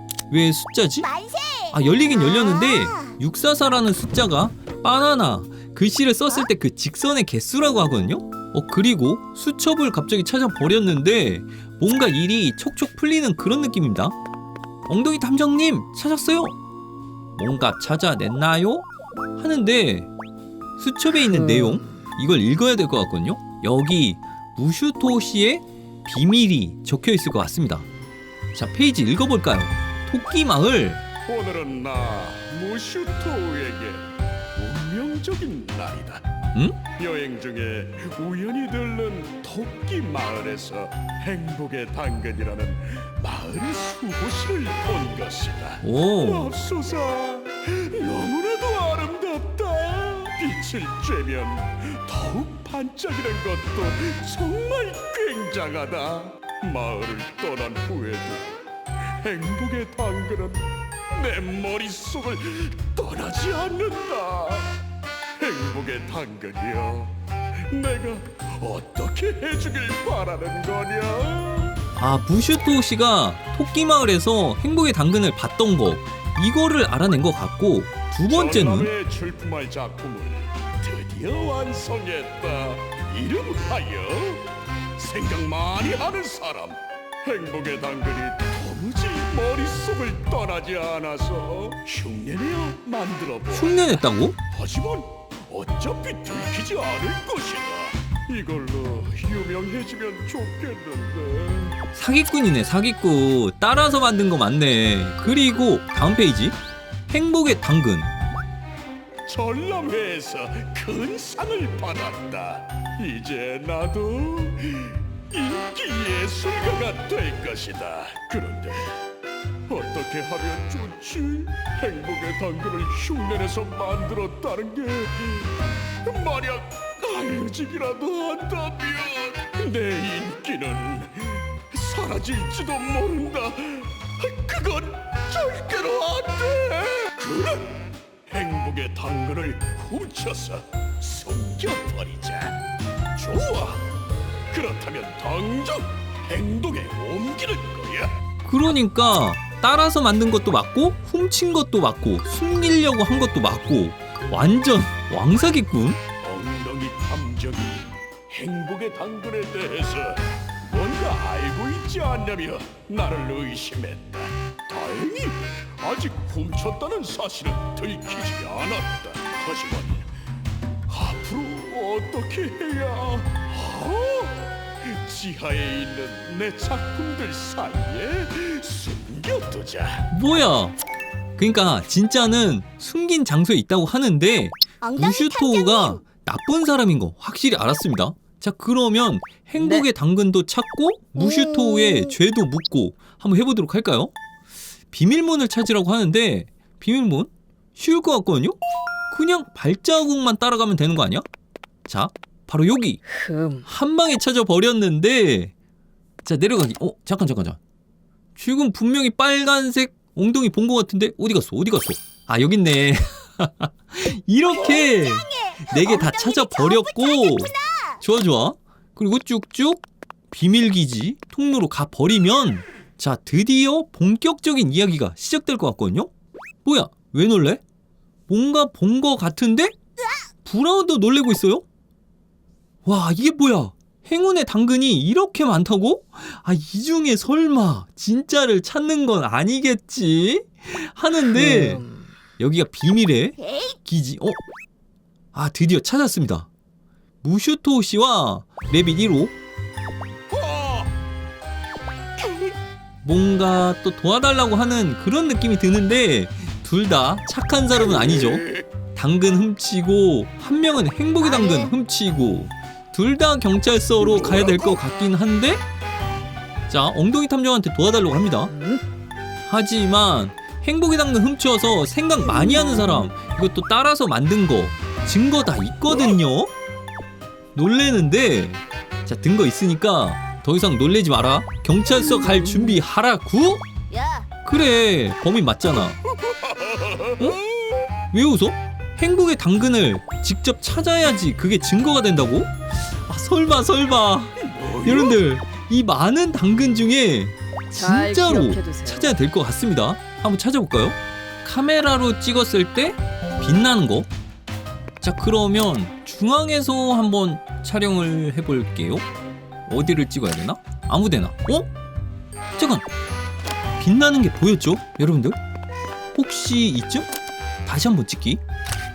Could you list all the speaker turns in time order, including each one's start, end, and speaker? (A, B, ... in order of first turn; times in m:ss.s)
0:00.3-0:01.1 A
0:01.0-0:03.1 B
0:01.7-0:14.1 A
0:14.9-0:16.6 A
0:17.4-0:20.1 A
0:20.8-0:27.9 A
0:21.2-0:22.0 C
0:28.5-0:31.0 A
0:31.2-0:36.2 D
0:36.9-0:58.5 D
0:45.8-0:46.5 A
0:59.2-1:04.7 D
1:05.4-1:07.1 D
1:07.7-1:11.8 D
1:12.0-1:18.9 A
1:18.3-1:41.8 D
1:33.5-1:34.4 A
1:41.9-1:46.6 A
1:47.1-1:48.1 A
1:49.2-1:59.0 D
1:59.7-2:22.6 D
2:23.2-2:23.8 D
2:24.5-2:28.1 D
2:28.4-2:36.0 A
2:36.2-2:50.1 D
2:50.9-3:00.1 D
3:00.1-3:00.8 A
3:01.4-3:14.1 A
3:04.8-3:06.0 B
3:09.6-3:09.9 C
3:11.2-3:12.2 B
3:14.9-3:18.6 A
3:19.1-3:21.2 A
3:21.8-3:23.0 A
3:23.1-3:23.7 C
3:23.6-3:25.5 A
3:26.2-3:27.6 A
3:28.4-3:46.1 A
3:34.5-3:38.0 B
3:46.6-3:47.6 A
3:48.3-3:49.8 A
3:50.0-3:50.2 B
3:50.4-3:51.6 A
3:52.8-4:01.8 A
4:01.2-4:02.2 C
4:02.4-4:04.4 A
4:03.4-4:03.8 B
4:05.3-4:06.5 A
4:07.2-4:09.3 A
4:10.3-4:10.9 D
4:12.2-4:12.5 B
4:13.0-4:18.4 A
4:17.8-4:18.6 D
4:19.0-4:25.6 A
4:21.2-4:21.7 B
4:24.0-4:24.8 D
4:26.7-4:28.5 A
4:28.5-4:28.8 C
4:29.5-4:36.5 A
4:35.9-4:36.1 D
4:37.5-4:43.6 A
4:43.9-4:44.3 B
4:44.4-4:46.0 A
4:46.1-4:47.8 D
4:48.1-5:04.1 A
4:54.4-4:55.2 D
4:57.7-4:59.1 C
5:05.0-5:09.0 A
5:09.7-5:11.7 A
5:12.6-5:12.8 A
5:13.8-5:15.4 A
5:16.1-5:17.1 A
5:17.6-5:18.4 A